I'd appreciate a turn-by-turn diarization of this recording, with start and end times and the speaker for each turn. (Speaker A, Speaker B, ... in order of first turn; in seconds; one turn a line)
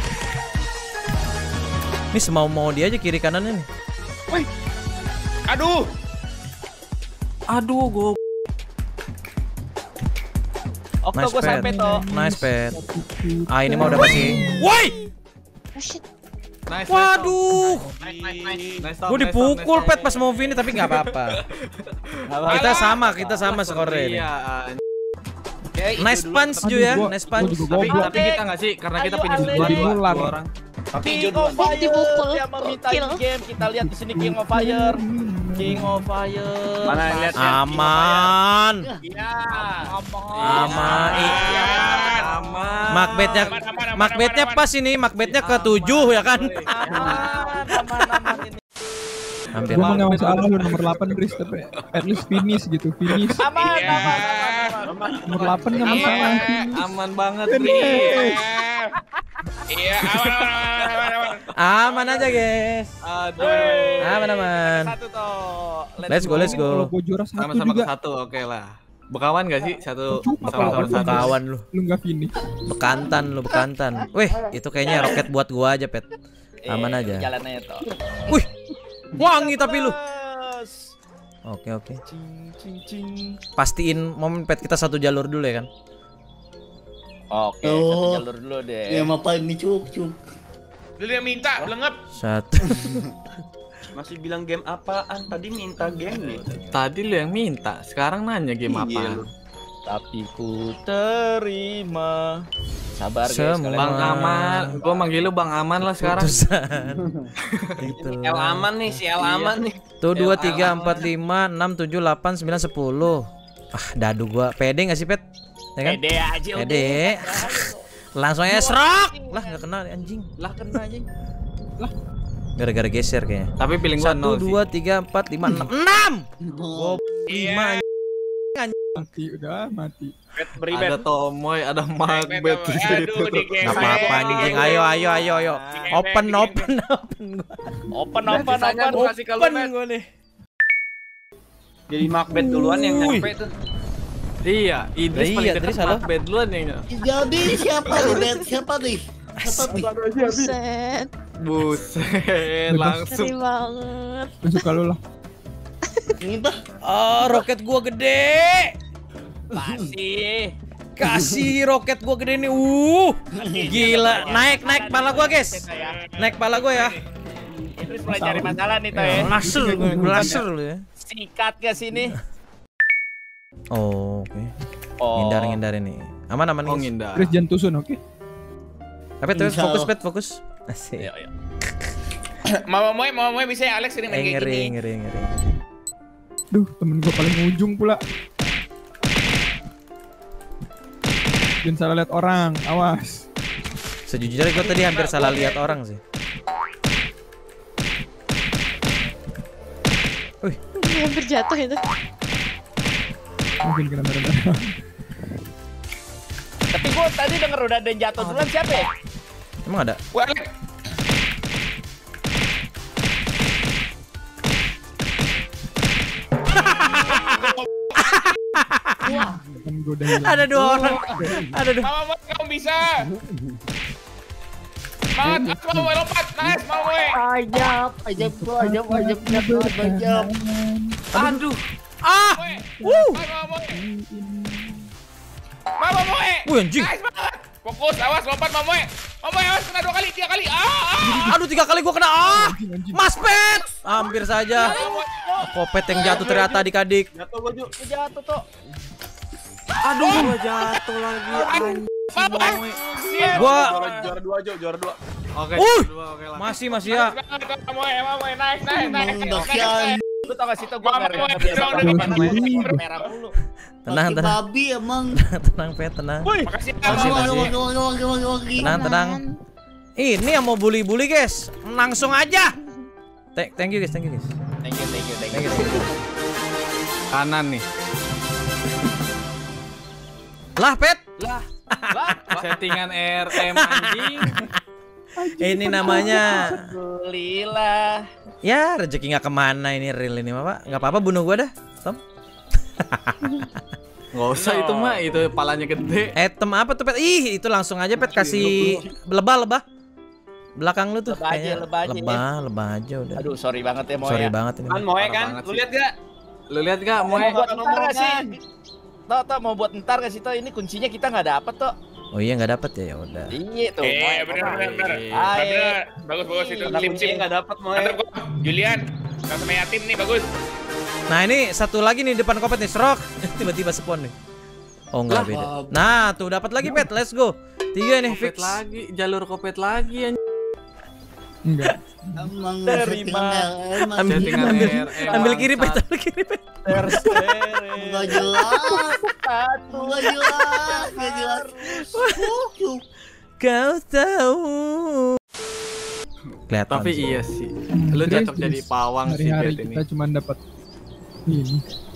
Speaker A: 2.1-3.7
Speaker B: 5.5-5.8
Speaker C: 7.5-8.2
Speaker D: 11.1-12.0
Speaker A: 11.2-12.8
Speaker E: 11.4-14.6
Speaker A: 13.5-14.9
Speaker F: 15.8-16.0
Speaker C: 16.7-17.4
Speaker A: 16.9-17.9
Speaker B: 17.7-18.8
Speaker D: 18.1-18.6
Speaker C: 18.8-21.9
Speaker A: 19.1-21.4
Speaker D: 22.3-23.4
Speaker A: 22.5-24.3
Speaker C: 23.4-24.8
Speaker G: 25.8-26.6
Speaker A: 26.0-27.8
Speaker E: 26.6-28.3
Speaker D: 27.3-30.0
Speaker C: 27.7-30.5
Speaker E: 29.4-30.4
Speaker G: 30.9-31.8
Speaker D: 31.0-35.0
Speaker F: 31.5-33.2
Speaker E: 33.6-36.1
Speaker D: 35.5-37.9
Speaker G: 36.9-38.3
Speaker A: 37.4-38.9
Speaker D: 39.0-42.5
Speaker C: 40.4-41.3
Speaker A: 40.4-41.5
Speaker B: 41.1-42.3
Speaker C: 42.1-43.6
Speaker A: 42.9-47.2
Speaker B: 43.3-44.6
Speaker C: 45.2-47.2
Speaker D: 46.7-48.5
Speaker G: 46.9-47.2
Speaker A: 49.5-50.4
Speaker C: 49.6-51.1
Speaker E: 49.7-53.5
Speaker D: 53.4-56.3
Speaker B: 53.6-54.7
Speaker G: 54.9-56.0
Speaker E: 55.2-56.7
Speaker B: 55.8-56.7
Speaker C: 55.9-58.4
Speaker E: 57.5-58.5
Speaker B: 57.6-58.9
Speaker B: 59.7-61.5
Speaker C: 60.0-61.0
Speaker A: 61.6-62.9
Speaker C: 63.0-64.3
Speaker D: 63.4-66.6
Speaker A: 64.0-64.9
Speaker A: 66.1-66.9
Speaker E: 66.1-67.9
Speaker C: 67.4-71.4
Speaker E: 70.1-72.3
Speaker A: 70.5-71.6
Speaker A: 72.7-76.1
Speaker D: 74.8-75.2
Speaker D: 76.7-77.8
Speaker A: 76.7-77.3
Speaker A: 79.2-80.0
Speaker D: 79.2-80.9
Speaker A: 81.5-82.0
Speaker D: 82.1-83.3
Speaker A: 83.6-85.7
Speaker D: 87.3-89.1
Speaker H: 87.6-88.3
Speaker H: 88.9-90.2
Speaker B: 91.0-92.0
Speaker A: 92.1-93.0
Speaker G: 94.0-96.5
Speaker D: 96.1-96.8
Speaker C: 96.7-99.3
Speaker G: 98.7-99.3
Speaker D: 99.9-102.5
Speaker D: 103.0-104.2
Speaker A: 103.3-104.8
Speaker C: 103.8-106.4
Speaker A: 105.8-107.0
Speaker A: 107.8-109.4
Speaker G: 107.8-109.8
Speaker A: 110.0-115.2
Speaker D: 110.2-111.1
Speaker C: 110.4-111.0
Speaker G: 110.4-110.8
Speaker D: 115.8-117.8
Speaker A: 116.5-120.3
Speaker D: 118.5-119.6
Speaker A: 122.6-127.8
Speaker C: 123.6-124.6
Speaker H: 126.4-127.0
Speaker B: 127.3-127.8
Speaker E: 129.0-130.1
Speaker G: 130.4-131.1
Speaker C: 130.7-133.9
Speaker B: 132.0-135.0
Speaker A: 133.6-137.6
Speaker D: 133.7-136.0
Speaker G: 133.8-134.6
Speaker B: 135.7-136.7
Speaker D: 137.9-139.1
Speaker G: 138.2-139.7
Speaker A: 138.9-140.1
Speaker G: 141.9-143.5
Speaker A: 142.3-143.3
Speaker C: 144.4-146.8
Speaker A: 145.1-146.1
Speaker H: 146.9-149.9
Speaker G: 147.9-148.2
Speaker A: 149.4-149.8
Speaker G: 149.7-150.5
Speaker F: 150.1-151.1
Speaker C: 151.4-153.3
Speaker E: 152.7-153.1
Speaker F: 153.1-154.7
Speaker E: 154.4-155.0
Speaker H: 156.2-156.6
Speaker A: 156.8-158.7
Speaker D: 159.5-160.6
Speaker A: 161.0-167.0
Speaker H: 161.0-161.3
Speaker D: 163.3-166.0
Speaker H: 163.4-164.1
Speaker B: 166.2-166.9
Speaker D: 167.8-169.3
Speaker E: 168.1-170.4
Speaker A: 169.1-170.8
Speaker H: 169.4-170.4
Speaker D: 171.0-172.2
Speaker A: 173.7-174.5
Speaker D: 175.0-175.6
Speaker A: 175.2-176.9
Speaker C: 176.7-177.3
Speaker E: 177.2-178.0
Speaker A: 179.2-181.1
Speaker H: 179.3-179.9
Speaker D: 181.0-181.3
Speaker B: 182.5-184.7
Speaker A: 184.1-185.4
Speaker E: 186.5-188.0
Speaker E: 191.6-193.3
Speaker A: 194.1-196.0
Speaker D: 194.7-195.6
Speaker F: 200.8-201.8
Speaker E: 203.6-204.7
Speaker D: 206.7-208.9
Speaker C: 208.2-208.5
Speaker A: 209.7-210.0
Speaker B: 210.1-210.5
Speaker A: 216.6-217.5
Speaker B: 217.2-217.6
Speaker A: 218.0-219.2
Speaker H: 219.0-219.6
Speaker E: 219.6-221.3
Speaker A: 220.2-221.9
Speaker H: 220.6-221.5
Speaker B: 221.8-223.1
Speaker H: 223.1-223.4
Speaker B: 225.2-227.2
Speaker E: 225.2-225.9
Speaker H: 227.1-230.3
Speaker E: 228.2-231.4
Speaker C: 231.1-231.6
Speaker A: 232.0-233.2
Speaker B: 232.4-233.8
Speaker E: 232.8-233.1
Speaker E: 233.7-234.9
Speaker B: 235.8-241.3
Speaker A: 236.5-236.9
Speaker E: 241.0-241.4
Speaker A: 241.2-244.8
Speaker E: 242.2-243.0
Speaker D: 244.6-245.1
Speaker B: 244.6-245.3
Speaker A: 245.4-247.1
Speaker D: 245.9-246.5
Speaker G: 246.2-246.4
Speaker G: 247.1-247.7
Speaker D: 247.8-248.4
Speaker C: 249.8-252.8
Speaker B: 251.5-254.1
Speaker A: 253.3-253.8
Speaker G: 253.3-255.0
Speaker C: 255.4-256.6
Speaker A: 255.6-257.1
Speaker B: 256.8-260.0
Speaker H: 258.7-260.0
Speaker D: 260.2-263.4
Speaker B: 260.8-263.0
Speaker E: 261.8-262.8
Speaker A: 263.9-264.4
Speaker H: 263.9-265.2
Speaker A: 265.1-267.5
Speaker B: 266.4-267.5
Speaker H: 266.8-268.8
Speaker A: 268.6-269.2
Speaker F: 268.6-269.4
Speaker A: 270.0-272.5
Speaker A: 273.4-274.3
Speaker D: 274.6-275.9
Speaker A: 275.3-275.9
Speaker C: 277.1-277.6
Speaker A: 280.6-281.1
Speaker D: 281.9-282.5
Speaker C: 282.4-284.5
Speaker A: 283.4-284.5
Speaker E: 285.2-286.6
Speaker A: 285.4-286.6
Speaker D: 286.0-288.1
Speaker A: 288.4-292.0
Speaker A: 292.8-293.4
Speaker C: 294.1-296.1
Speaker D: 294.4-295.0
Speaker A: 296.2-299.6
Speaker G: 298.1-298.8
Speaker A: 300.6-303.3
Speaker D: 301.1-302.2
Speaker D: 303.2-304.3
Speaker A: 304.0-304.9
Speaker G: 304.7-305.9
Speaker C: 305.0-305.6
Speaker C: 306.5-307.4
Speaker G: 307.0-308.3
Speaker D: 307.1-308.4
Speaker D: 309.1-311.7
Speaker A: 312.1-313.3
Speaker D: 313.3-315.8
Speaker B: 313.8-320.3
Speaker C: 314.4-315.3
Speaker D: 316.3-317.1
Speaker G: 316.7-318.0
Speaker A: 321.1-324.1
Speaker A: 324.9-328.6
Speaker H: 325.1-325.8
Speaker C: 328.1-330.2
Speaker E: 331.5-332.2
Speaker H: 332.2-334.9
Speaker G: 332.7-333.4
Speaker D: 332.9-333.2
Speaker A: 333.9-337.1
Speaker C: 334.0-335.8
Speaker D: 336.7-341.7
Speaker H: 337.8-339.0
Speaker H: 339.7-342.8
Speaker A: 341.9-342.3
Speaker A: 343.4-345.2
Speaker A: 346.5-347.2
Speaker C: 346.7-349.8
Speaker E: 347.7-350.4
Speaker E: 351.3-351.6